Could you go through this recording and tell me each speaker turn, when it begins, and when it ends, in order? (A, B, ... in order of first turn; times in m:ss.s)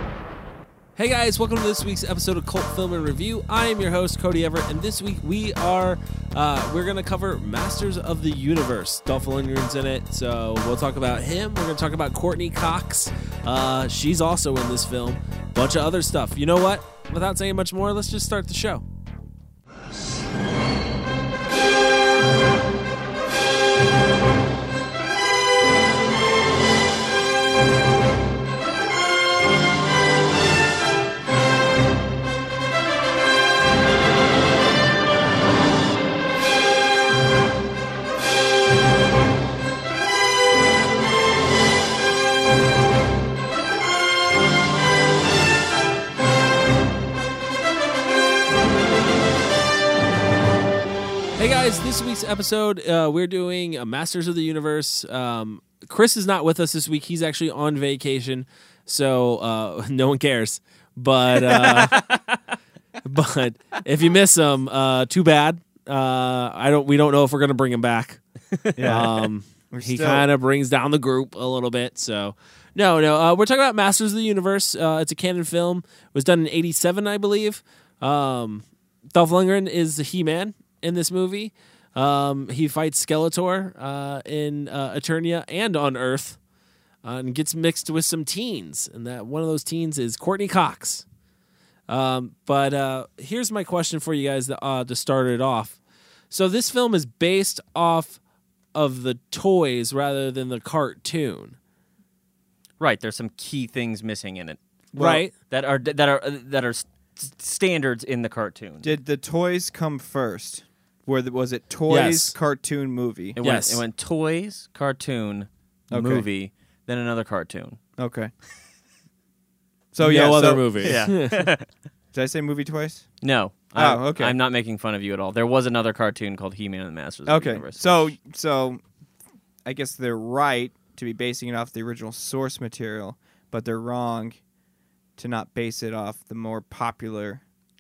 0:01.0-0:18.8 A
0:51.4-1:02.0 A
1:01.5-1:01.9 B
1:01.9-1:02.4 C
1:03.0-1:08.2 A
1:08.8-1:10.3 B
1:08.8-1:26.4 A
1:27.0-1:31.0 A
1:31.9-1:35.8 A
1:36.3-1:38.2 A
1:38.7-1:41.6 A
1:42.8-1:44.6 C
1:44.9-1:45.3 A
1:45.0-1:45.2 B
1:45.5-1:48.9 C
1:48.8-1:53.4 B
1:51.9-1:52.3 A
1:53.4-1:57.8 C
1:53.4-1:53.8 A
1:55.9-1:56.2 B
1:58.0-1:58.3 B
1:59.9-2:01.0 B
2:00.0-2:01.5 A
2:00.8-2:01.7 C
2:02.1-2:03.1 B
2:03.2-2:08.1 C
2:03.7-2:04.4 B
2:07.3-2:08.8 B
2:09.6-2:14.4 B
2:15.2-2:17.4 B